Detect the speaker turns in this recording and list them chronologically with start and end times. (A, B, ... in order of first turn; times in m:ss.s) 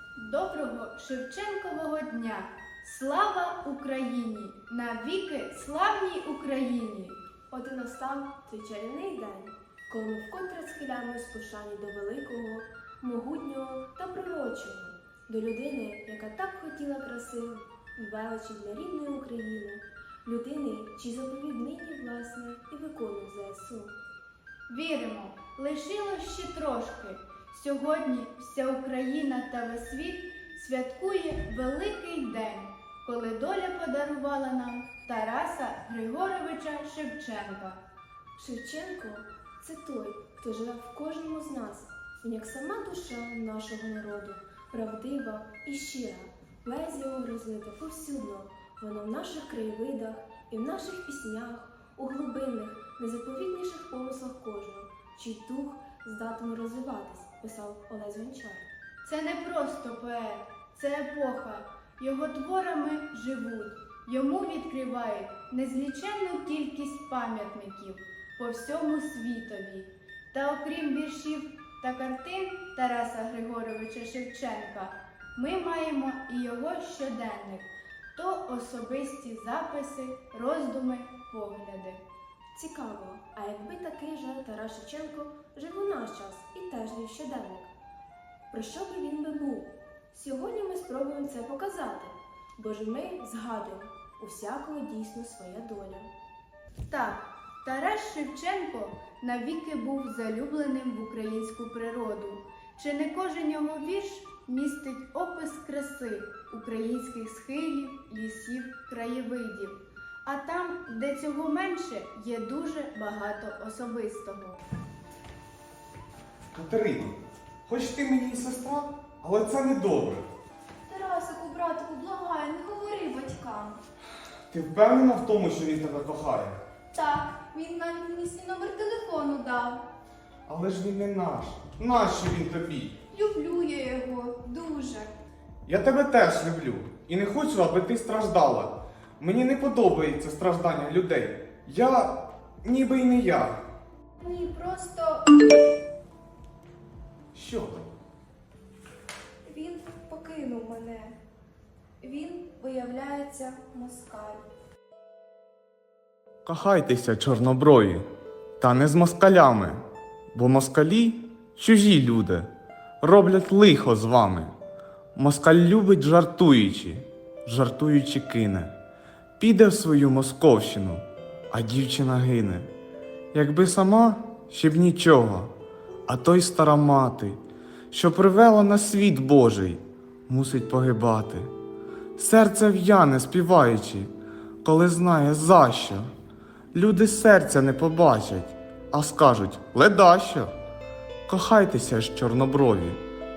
0:00.2-0:07.2 A
0:07.5-0:23.9 B
0:24.7-0:37.8 A
0:38.4-0:58.7 B
0:59.0-1:22.0 A
1:22.5-1:27.7 B
1:28.5-1:36.1 B
1:36.9-1:54.6 A
1:56.5-2:00.3 C
2:00.9-2:03.8 D
2:04.5-2:06.6 C
2:06.9-2:09.8 D
2:10.5-2:13.0 C
2:13.1-2:15.1 D
2:15.7-2:23.6 C
2:24.2-2:25.5 D
2:27.3-2:28.0 C
2:29.5-2:31.2 D
2:32.0-2:34.4 D
2:36.4-2:38.1 C
2:38.6-2:39.8 C
2:40.3-2:44.5 C
2:45.2-2:48.7 C
2:49.4-2:52.7 C
2:53.3-2:55.5 C
2:56.1-3:01.5 C
3:02.2-3:04.1 C
3:04.6-3:06.1 C
3:06.8-3:10.5 C
3:11.3-3:13.0 C